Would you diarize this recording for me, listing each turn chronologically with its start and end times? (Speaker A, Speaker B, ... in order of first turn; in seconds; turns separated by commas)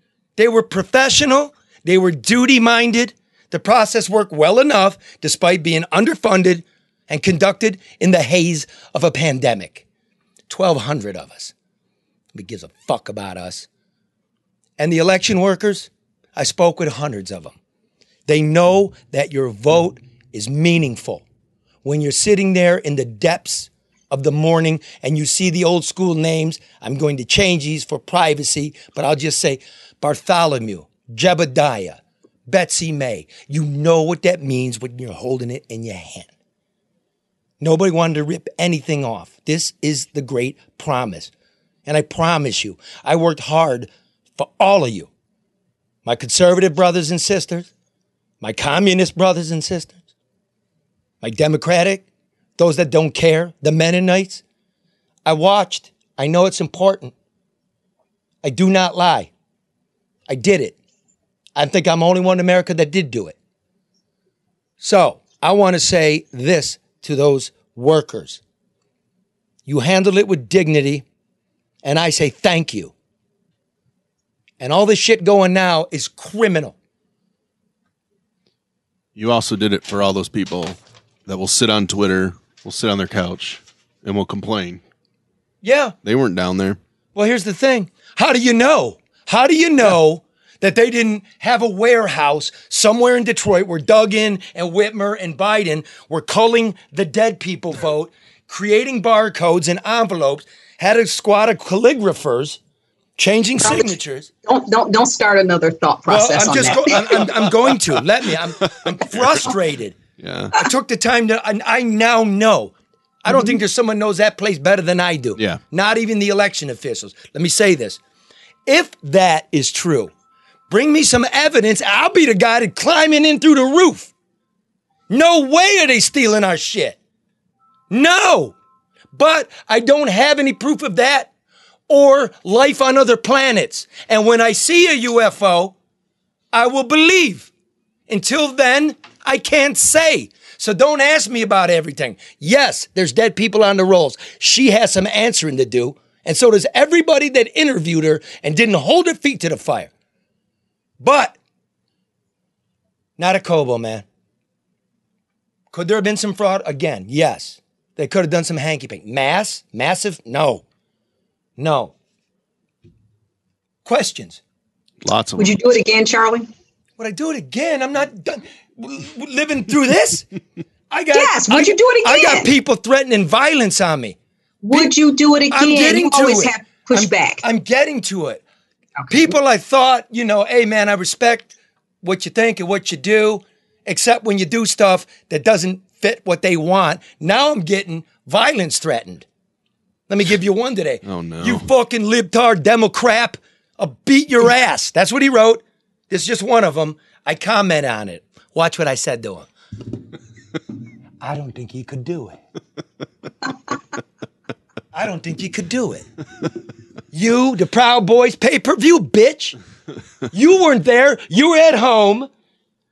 Speaker A: 0.4-9.8, Speaker A: 10.5-11.5, Speaker A: 12.3-13.7, Speaker A: 14.8-17.6, Speaker A: 18.3-21.2, Speaker A: 21.8-36.3, Speaker A: 37.6-41.3, Speaker A: 41.9-45.1, Speaker A: 46.0-47.7, Speaker A: 48.4-50.0, Speaker A: 51.2-52.0, Speaker A: 52.6-54.4, Speaker A: 55.2-57.1, Speaker A: 58.4-59.3, Speaker A: 60.3-60.8, Speaker A: 61.5-63.4, Speaker A: 64.8-68.4, Speaker A: 69.7-71.0, Speaker A: 71.8-72.9, Speaker A: 74.6-76.7, Speaker B: 79.2-84.8, Speaker A: 85.6-85.9, Speaker B: 86.0-86.8, Speaker A: 87.1-102.6, Speaker A: 103.2-104.3, Speaker C: 103.6-103.9, Speaker C: 104.5-107.5, Speaker A: 106.1-110.0, Speaker B: 109.2-109.4, Speaker B: 110.2-110.5, Speaker A: 110.5-112.7, Speaker A: 113.2-118.0, Speaker A: 118.7-120.1, Speaker A: 120.7-124.1, Speaker A: 125.1-127.0, Speaker A: 127.9-128.5, Speaker A: 129.1-131.3, Speaker A: 131.9-135.7, Speaker A: 136.5-137.5, Speaker A: 138.1-149.9, Speaker A: 151.0-151.3, Speaker A: 153.2-154.0, Speaker A: 155.7-160.6, Speaker A: 161.6-161.9, Speaker A: 163.8-164.4, Speaker B: 165.0-165.6, Speaker C: 165.4-166.5, Speaker A: 167.0-170.2, Speaker A: 170.9-174.2, Speaker C: 171.1-172.5, Speaker C: 174.6-177.4, Speaker A: 175.5-178.4, Speaker A: 179.1-189.2, Speaker A: 190.1-199.5, Speaker B: 191.0-191.7, Speaker A: 201.2-202.4, Speaker A: 204.9-206.1, Speaker A: 207.1-209.6, Speaker A: 210.3-212.3